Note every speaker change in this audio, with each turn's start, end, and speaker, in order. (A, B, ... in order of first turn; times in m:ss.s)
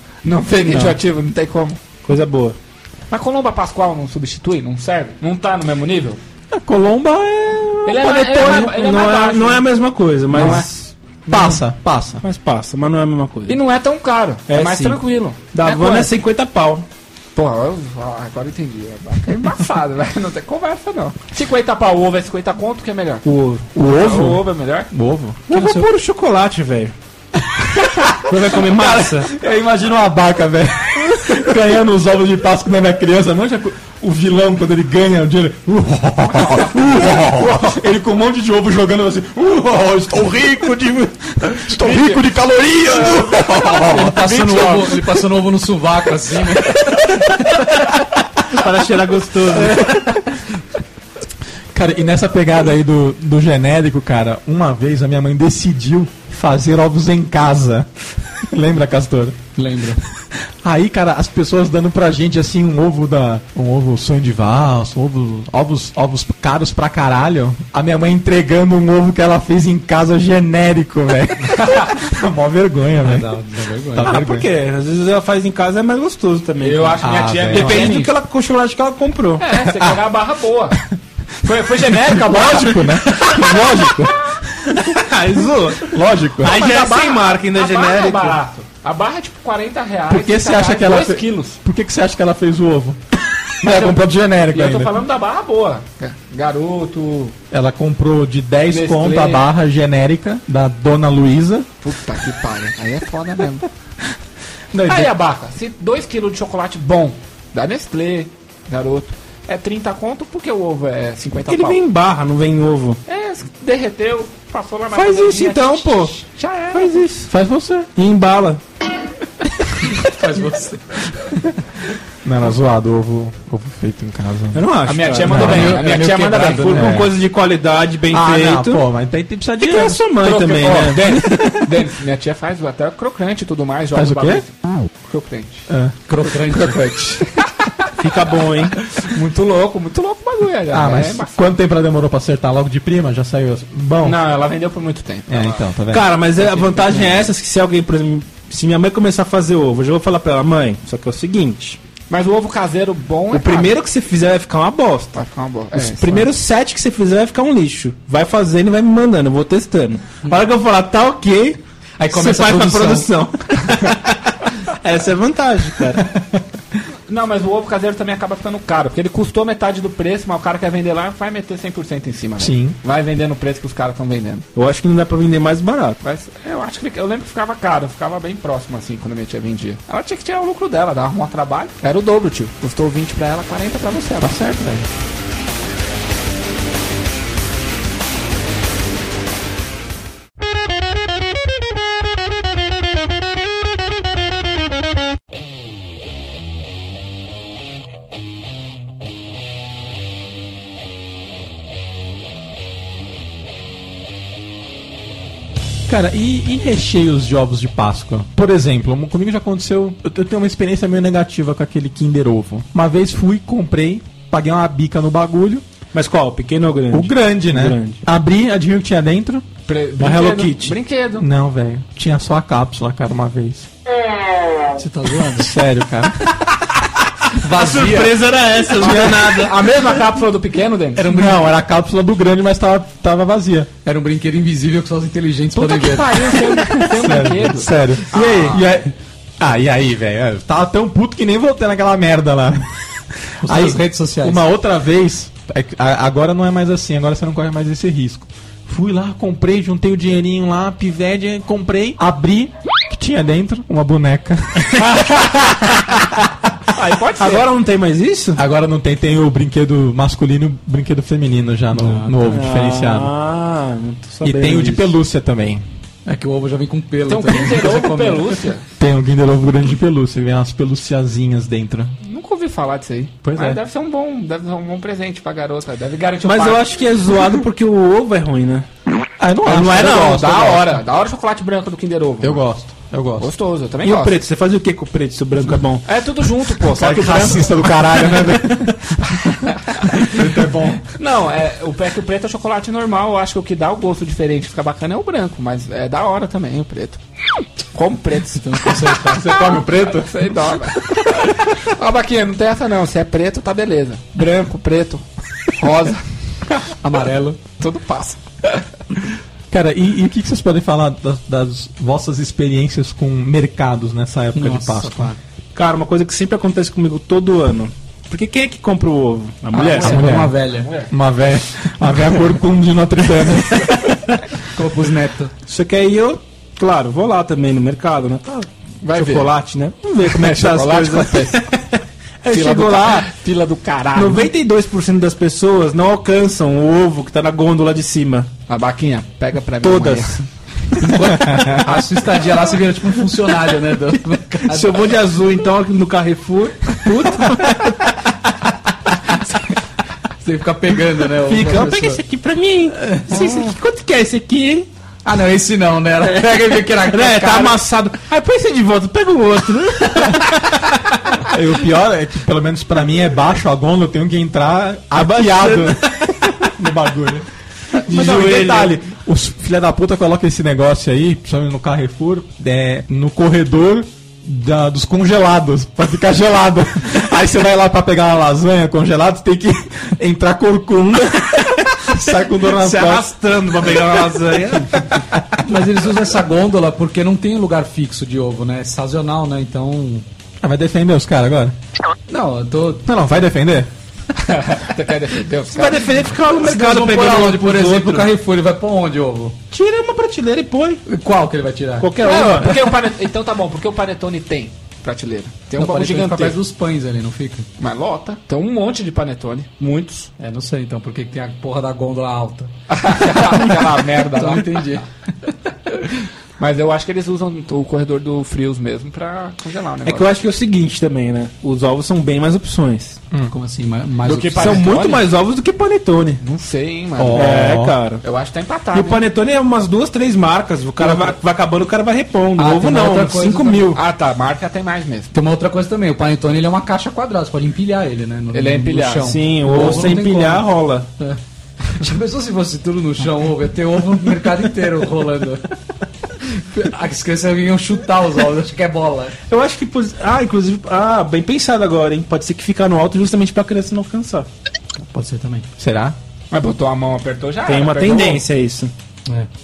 0:00.2-0:01.8 A
0:02.1-0:02.6 B
0:03.1-0:06.2 A
0:06.5-0:08.7 C
0:07.8-0:09.7 A
0:08.4-0:11.5 B
0:10.3-0:10.7 A
0:10.3-0:10.6 C
0:11.3-0:12.2 C
0:12.2-0:13.6 B
0:13.5-0:16.1 A
0:14.5-0:15.0 B
0:15.5-0:16.9 B
0:17.4-0:23.3 A
0:23.2-0:23.7 B
0:23.8-0:25.6 C
0:23.8-0:24.9 A
0:25.5-0:27.0 B
0:25.5-0:25.9 D
0:27.6-0:44.3 C
0:28.2-0:29.3 B
0:37.1-0:37.8 A
0:41.7-0:42.2 A
0:43.0-0:43.6 A
0:43.8-0:47.0 D
0:44.2-0:45.0 A
0:48.5-0:49.9 B
0:49.6-0:50.1 C
0:51.7-0:57.9 C
0:58.4-0:59.4 C
0:59.6-1:00.0 D
1:00.5-1:13.3 C
1:11.6-1:12.0 A
1:13.0-1:14.2 D
1:13.9-1:14.5 C
1:14.0-1:19.5 B
1:16.6-1:18.1 A
1:17.0-1:18.0 C
1:19.4-1:20.9 A
1:19.7-1:20.0 C
1:21.4-1:23.9 A
1:21.9-1:24.8 C
1:24.9-1:28.4 B
1:25.8-1:26.6 C
1:26.4-1:31.6 A
1:30.1-1:33.0 C
1:33.6-1:35.0 C
1:33.6-1:37.4 A
1:37.5-1:41.7 C
1:38.7-1:39.4 A
1:41.8-1:43.7 A
1:44.8-1:45.1 C
1:44.8-1:51.8 A
1:51.5-1:53.0 B
1:53.1-1:57.1 A
1:54.9-1:56.1 B
1:56.7-1:57.3 B
1:57.3-1:57.9 C
1:58.0-1:58.6 B
1:59.9-2:00.9 D
2:02.2-2:04.7 C
2:04.6-2:08.8 B
2:04.9-2:07.0 A
2:05.2-2:05.8 C
2:06.7-2:07.2 C
2:08.1-2:10.0 C
2:09.6-2:11.2 B
2:09.7-2:14.5 A
2:11.2-2:11.6 C
2:13.9-2:14.4 C
2:15.0-2:15.7 A
2:15.7-2:17.3 C
2:16.1-2:17.0 D
2:17.2-2:17.6 A
2:18.0-2:18.8 B
2:18.9-2:21.5 A
2:20.7-2:24.2 C
2:24.0-2:25.6 A
2:25.3-2:26.1 C
2:25.9-2:31.8 B
2:26.4-2:27.3 A
2:32.1-2:33.8 A
2:33.3-2:35.2 B
2:35.2-2:36.3 A
2:35.7-2:46.1 B
2:42.1-2:43.0 D
2:42.3-2:43.0 C
2:47.1-2:54.5 A
2:52.4-2:52.8 C
2:54.6-2:56.0 B
2:56.0-3:04.4 A
3:04.2-3:04.9 C
3:25.9-3:35.7 C
3:35.9-3:38.0 B
3:36.9-3:39.5 C
3:39.7-3:41.3 A
3:40.0-3:40.8 B
3:41.2-3:43.7 C
3:44.8-3:45.5 D
3:45.4-3:46.3 C
3:47.3-3:48.2 D
3:47.4-3:49.8 B
3:48.8-3:49.5 C
3:48.8-3:51.4 A
3:51.0-3:53.7 C
3:53.8-3:56.4 D
3:55.6-3:58.6 A
3:56.8-4:02.7 C
4:03.4-4:04.5 D
4:03.4-4:16.0 C
4:14.8-4:15.8 A
4:16.7-4:17.5 A
4:17.2-4:18.4 B
4:18.4-4:23.1 C
4:21.8-4:22.2 D
4:22.3-4:24.9 B
4:24.2-4:25.6 C
4:26.1-4:28.3 D
4:27.1-4:28.6 A
4:28.8-4:32.0 C
4:32.0-4:36.7 A
4:33.2-4:33.6 C
4:36.2-4:38.7 B
4:39.2-4:40.8 C
4:39.5-4:42.5 A
4:42.2-4:43.3 C
4:43.2-4:44.2 A
4:43.8-4:45.8 B
4:45.8-4:47.6 A
4:46.6-4:49.4 C
4:49.9-4:50.9 C
4:50.9-4:57.0 A
4:57.7-5:06.0 A
4:58.4-4:59.9 D
4:59.3-5:00.0 C
5:06.8-5:07.4 D
5:07.6-5:08.6 A
5:09.5-5:15.1 C
5:14.4-5:15.2 D
5:15.5-5:20.1 B
5:19.5-5:20.7 D
5:19.6-5:20.9 A
5:19.8-5:24.1 C
5:24.5-5:25.3 D
5:25.5-5:31.6 B
5:28.8-5:29.3 A
5:30.0-5:31.6 A
5:32.2-5:33.1 B
5:32.3-5:34.3 A
5:34.0-5:38.3 B
5:38.5-5:40.2 A
5:39.6-5:40.2 B
5:40.8-5:44.9 D
5:41.3-5:41.6 C
5:44.5-5:47.9 B
5:50.2-5:52.0 D
5:51.2-5:54.7 B
5:52.8-5:53.1 D
5:55.0-5:57.6 D
5:56.8-6:00.6 B
6:01.3-6:07.3 C
6:05.0-6:06.3 B
6:07.8-6:08.8 B
6:07.8-6:23.1 C
6:22.5-6:25.0 B
6:25.4-6:30.1 D
6:30.4-6:31.6 C
6:32.1-6:32.9 D
6:32.9-6:33.7 C
6:34.2-6:35.9 A
6:35.5-6:38.1 B
6:36.4-6:39.4 D
6:39.5-6:40.8 B
6:40.9-6:42.3 D
6:41.8-6:42.8 B
6:42.0-6:46.4 A
6:45.6-6:47.5 D
6:47.6-6:50.1 A
6:50.2-6:55.3 D
6:52.7-6:54.7 A
6:56.4-7:00.1 A
6:59.8-7:03.0 B
7:03.3-7:04.7 D
7:04.0-7:05.1 A
7:04.4-7:06.2 B
7:06.2-7:09.0 A
7:07.0-7:07.8 C
7:07.2-7:08.0 B
7:08.7-7:13.8 B
7:10.8-7:11.2 D
7:12.4-7:13.7 D
7:13.7-7:15.1 A
7:15.1-7:20.5 D
7:18.3-7:19.2 A
7:19.0-7:20.9 B
7:21.0-7:25.5 D
7:26.2-7:29.2 D
7:29.3-7:34.3 B
7:34.8-7:35.5 D
7:35.6-7:36.0 C
7:36.3-7:38.2 A
7:37.5-7:38.7 B